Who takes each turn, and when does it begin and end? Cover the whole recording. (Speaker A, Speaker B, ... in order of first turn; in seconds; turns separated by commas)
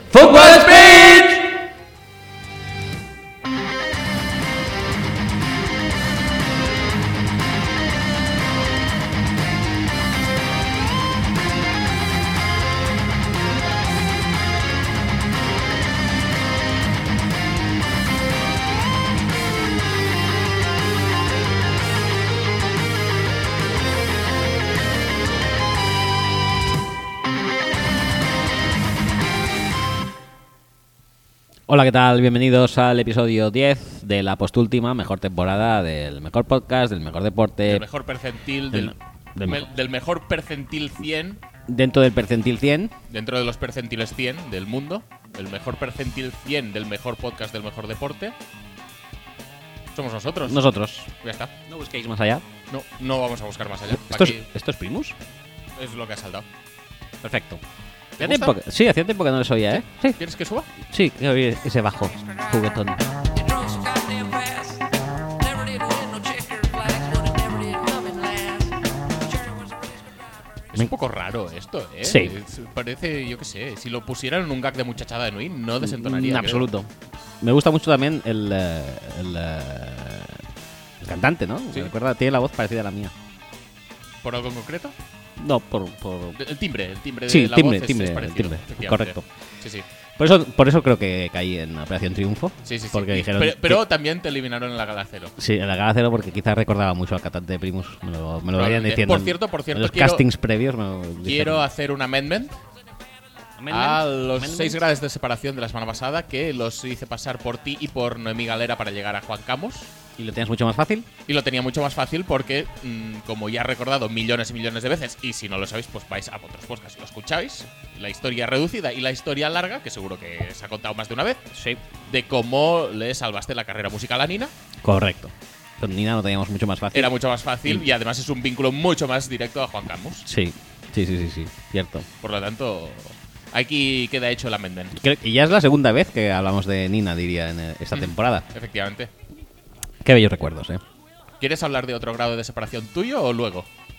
Speaker A: 0.2-1.4, Speaker B: 31.7-37.9, Speaker C: 37.7-41.4, Speaker B: 38.7-39.7, Speaker B: 41.7-42.9, Speaker C: 43.1-48.4, Speaker C: 49.9-50.6, Speaker B: 50.5-51.1, Speaker C: 51.2-51.5, Speaker B: 51.7-52.5, Speaker C: 52.7-54.5, Speaker B: 53.9-55.2, Speaker C: 55.8-56.5, Speaker B: 57.2-57.6, Speaker C: 58.2-58.6, Speaker B: 58.2-60.2, Speaker C: 60.1-60.7, Speaker B: 60.9-63.0, Speaker A: 63.3-64.9, Speaker A: 65.4-69.9, Speaker C: 70.7-76.7, Speaker B: 72.0-72.3, Speaker B: 75.8-80.4, Speaker B: 81.0-83.1, Speaker C: 84.2-85.0, Speaker B: 85.4-86.4, Speaker C: 86.4-89.9, Speaker B: 87.3-89.3, Speaker B: 90.2-93.8, Speaker C: 92.7-95.3, Speaker B: 95.4-101.7, Speaker C: 98.5-100.2, Speaker C: 101.2-102.6, Speaker B: 103.6-104.8, Speaker C: 103.7-109.9, Speaker B: 110.2-111.1, Speaker C: 111.3-121.5, Speaker B: 121.5-121.8, Speaker C: 122.1-124.5, Speaker B: 124.8-127.1, Speaker C: 126.9-130.3, Speaker B: 130.3-132.1, Speaker C: 132.2-135.0, Speaker B: 134.9-138.5, Speaker C: 137.9-139.1, Speaker B: 140.0-140.8, Speaker C: 141.4-143.7